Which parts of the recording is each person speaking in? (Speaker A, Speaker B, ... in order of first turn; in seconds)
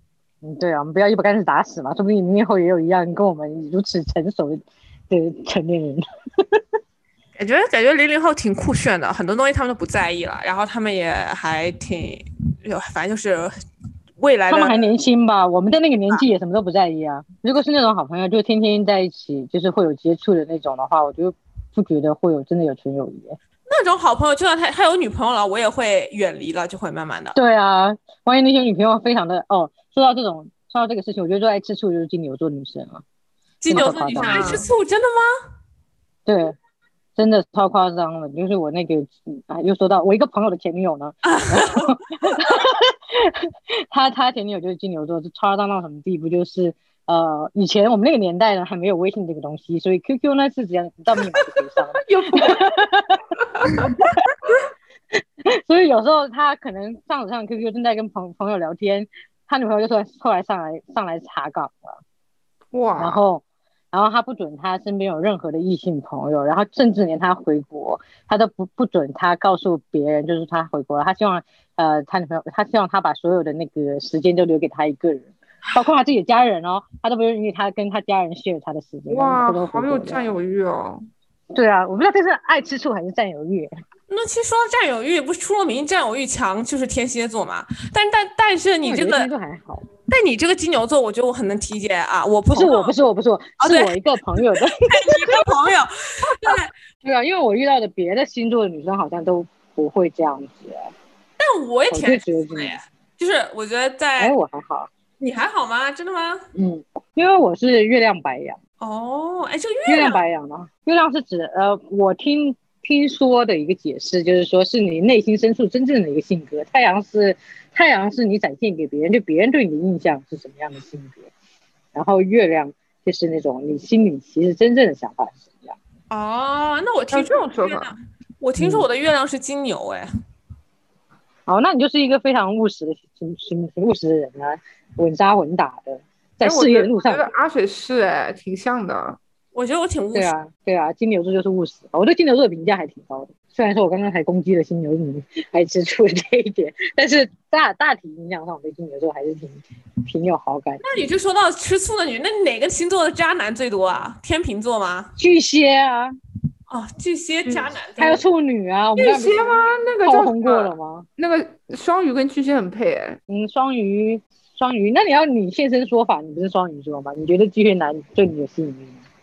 Speaker A: 0.4-6.6, 14.5-23.4, 27.3-33.0, 33.7-34.6, 36.2-36.5, 37.1-53.2, 55.2-62.0, 63.0-80.3, 81.5-83.7, 88.8-89.9, 92.5-95.5, 96.5-100.9, 101.9-102.8, 104.2-104.9, 106.5-108.6, 109.8-121.3, 121.9-125.8, 128.6-128.8, 131.5-137.2, 140.1-151.0, 155.2-156.2, 158.0-161.1, 163.3-169.0
Speaker B: 7.4-13.5, 14.2-14.9, 23.7-27.4, 33.6-35.4, 41.2-41.9, 84.1-89.3, 90.1-92.9, 93.6-96.7, 101.4-104.3, 105.2-106.4, 108.8-110.2, 126.1-130.1, 139.5-140.3, 150.8-155.1, 156.7-158.2
Speaker C: 33.8-34.7, 52.0-52.7, 53.5-53.9, 62.7-63.2, 79.1-81.0, 127.1-127.9, 136.4-139.2, 159.0-163.2